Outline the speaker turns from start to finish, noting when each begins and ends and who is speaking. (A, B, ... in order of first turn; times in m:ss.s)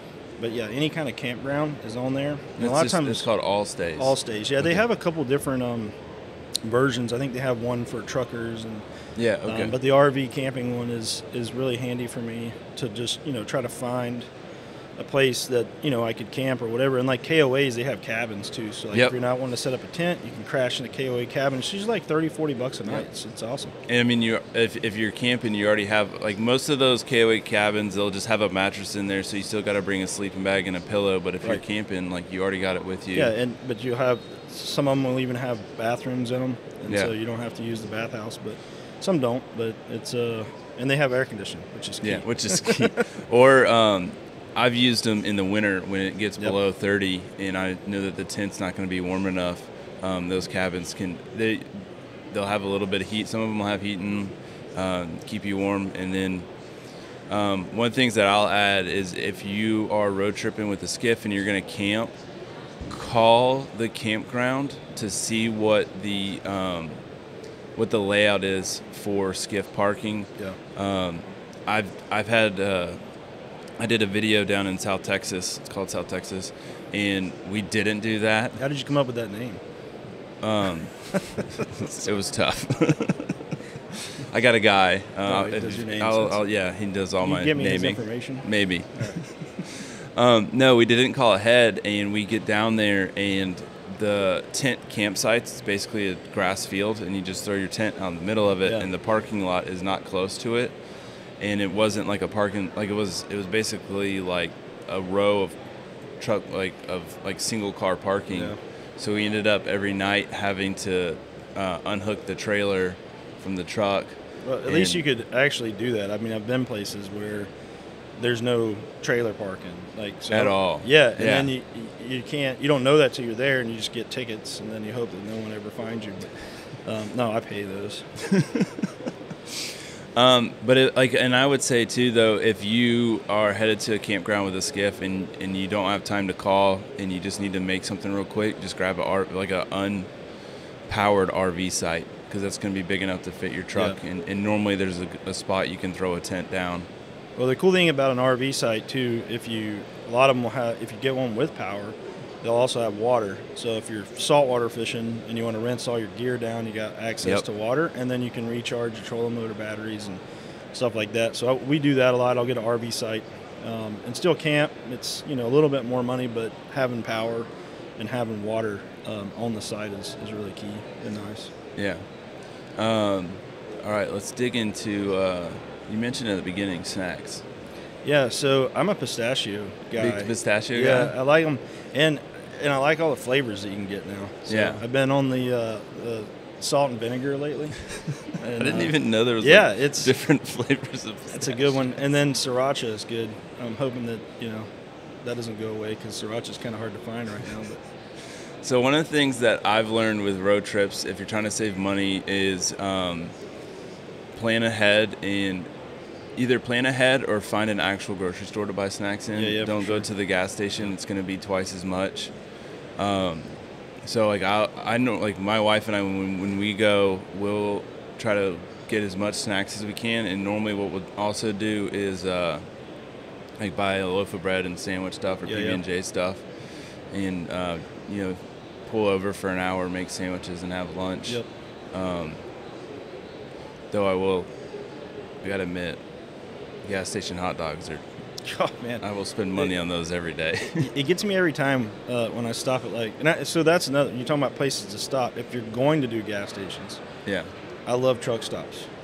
0:00.4-0:03.3 A
0:02.6-0:04.1 B
0:04.0-0:06.0 A
0:06.6-0:08.8 A
0:09.2-0:09.8 B
0:09.5-0:14.3 A
0:15.0-0:23.8 A
0:23.9-0:33.3 B
0:33.1-0:43.0 A
0:42.0-0:51.7 B
0:52.3-0:56.5 B
0:57.3-1:02.1 B
1:02.9-1:07.0 B
1:07.8-1:13.0 B
1:13.8-1:18.6 B
1:18.6-1:19.6 A
1:20.4-1:23.3 B
1:21.4-1:21.7 A
1:24.0-1:40.7 B
1:25.2-1:26.4 A
1:27.2-1:29.2 A
1:41.4-1:45.6 B
1:46.2-1:55.0 B
1:48.3-1:48.6 A
1:54.4-1:57.5 A
1:58.2-2:06.3 A
2:00.3-2:01.5 B
2:06.8-2:08.1 A
2:08.2-2:08.9 B
2:10.2-2:20.1 B
2:20.9-2:26.9 B
2:27.4-2:40.2 A
2:40.7-2:47.5 A
2:48.0-2:51.5 A
2:51.8-2:52.0 B
2:52.8-2:57.4 B
2:58.0-3:07.8 A
3:00.0-3:01.1 B
3:04.5-3:04.8 B
3:08.3-3:10.1 A
3:08.6-3:11.7 B
3:11.4-3:14.7 A
3:15.2-3:17.8 A
3:18.6-3:23.3 B
3:24.4-3:25.7 B
3:26.4-3:32.3 B
3:29.4-3:30.1 A
3:33.0-3:42.6 B
3:43.6-3:46.4 B
3:45.5-3:45.8 A
3:47.1-3:51.4 B
3:51.9-3:52.4 B
3:53.9-3:54.5 B
3:55.4-3:56.0 B
3:56.8-3:58.0 B
3:58.4-3:59.0 A
3:59.0-4:00.9 B
4:00.8-4:07.0 A
4:07.2-4:07.5 B
4:07.9-4:08.9 A